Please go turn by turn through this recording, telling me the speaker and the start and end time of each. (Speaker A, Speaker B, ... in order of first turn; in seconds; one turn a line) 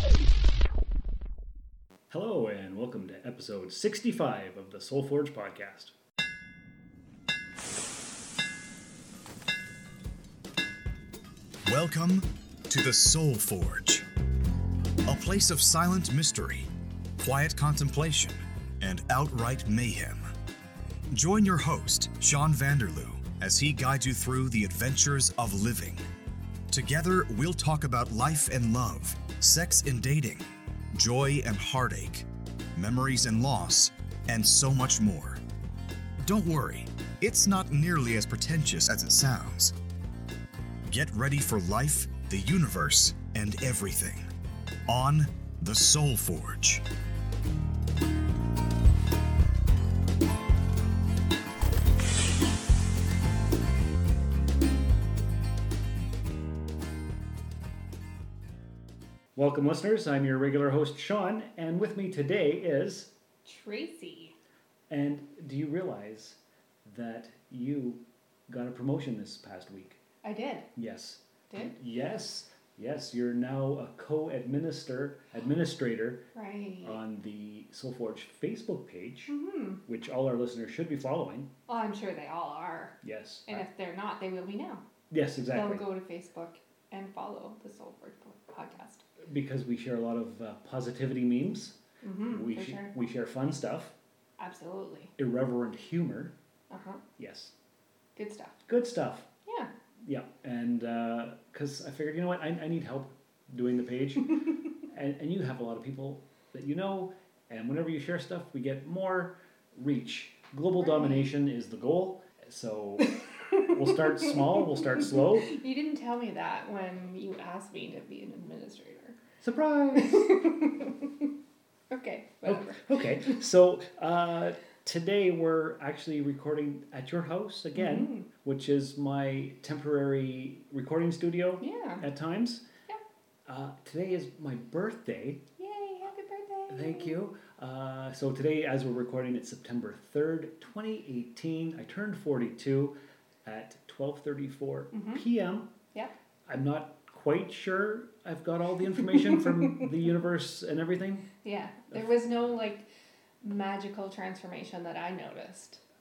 Speaker A: 2.1-5.9
Speaker B: 11.6-14.1
Speaker B: 15.1-20.2
Speaker B: 21.1-26.1
Speaker B: 26.7-35.4
Speaker B: 36.2-39.7
Speaker B: 40.9-44.3
Speaker B: 44.9-46.8
Speaker A: 59.4-63.1
Speaker C: 63.4-64.4
Speaker A: 64.9-70.0
Speaker C: 70.2-70.7
Speaker A: 70.8-76.2
Speaker C: 71.5-71.7
Speaker C: 76.3-77.0
Speaker A: 76.8-79.3
Speaker C: 79.3-79.8
Speaker A: 79.9-81.5
Speaker C: 81.7-84.8
Speaker A: 83.0-83.7
Speaker A: 85.1-85.9
Speaker C: 85.5-89.0
Speaker A: 89.2-91.8
Speaker C: 92.0-92.9
Speaker A: 92.3-93.9
Speaker C: 94.4-95.1
Speaker A: 95.2-96.3
Speaker C: 96.7-97.0
Speaker A: 97.2-97.5
Speaker C: 98.2-98.6
Speaker A: 98.7-99.3
Speaker C: 99.5-99.7
Speaker A: 100.0-115.5
Speaker C: 110.8-111.2
Speaker C: 114.2-119.2
Speaker A: 119.4-120.4
Speaker C: 119.9-121.0
Speaker C: 121.9-123.4
Speaker A: 122.4-132.7
Speaker C: 127.7-128.3
Speaker C: 131.6-132.0
Speaker A: 133.5-135.4
Speaker C: 135.6-137.2
Speaker A: 136.7-145.7
Speaker C: 144.9-145.2
Speaker A: 146.5-151.3
Speaker C: 151.4-152.9
Speaker C: 153.4-155.8